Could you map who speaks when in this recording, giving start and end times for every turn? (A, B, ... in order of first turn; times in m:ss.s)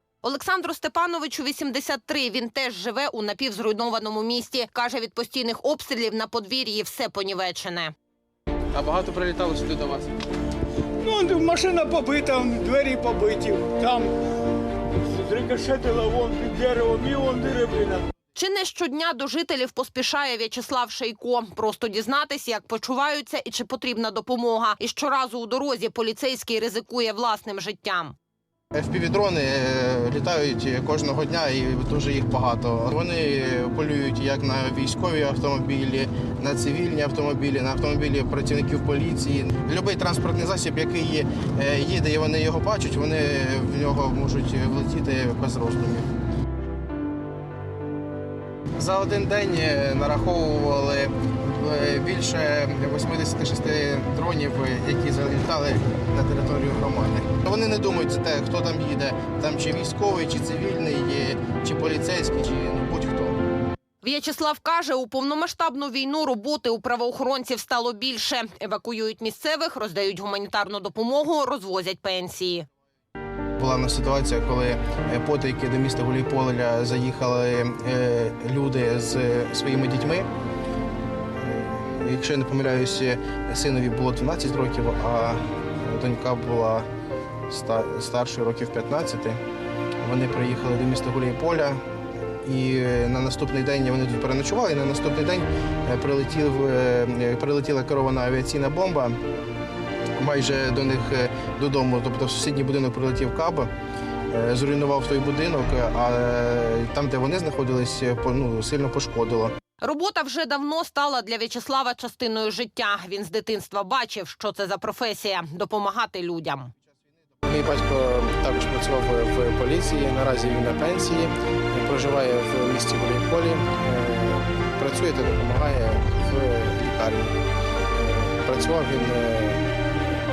0:00.2-0:07.9 A
0:08.7-0:10.1 B
0:11.0-0:14.1 C
0:15.0-0:18.0 C
0:18.4-0:28.1 A
0:28.7-0:46.1 B
0:48.8-1:03.4 B
1:04.0-1:12.6 A
1:13.6-1:20.3 B
1:21.4-1:26.9 B
1:27.5-1:29.4 B
1:30.0-1:31.8 B
1:32.4-1:39.2 B
1:40.2-1:43.7 B
1:44.3-1:49.5 B
1:49.8-1:56.7 A
1:57.4-2:07.4 B
2:07.9-2:09.6 B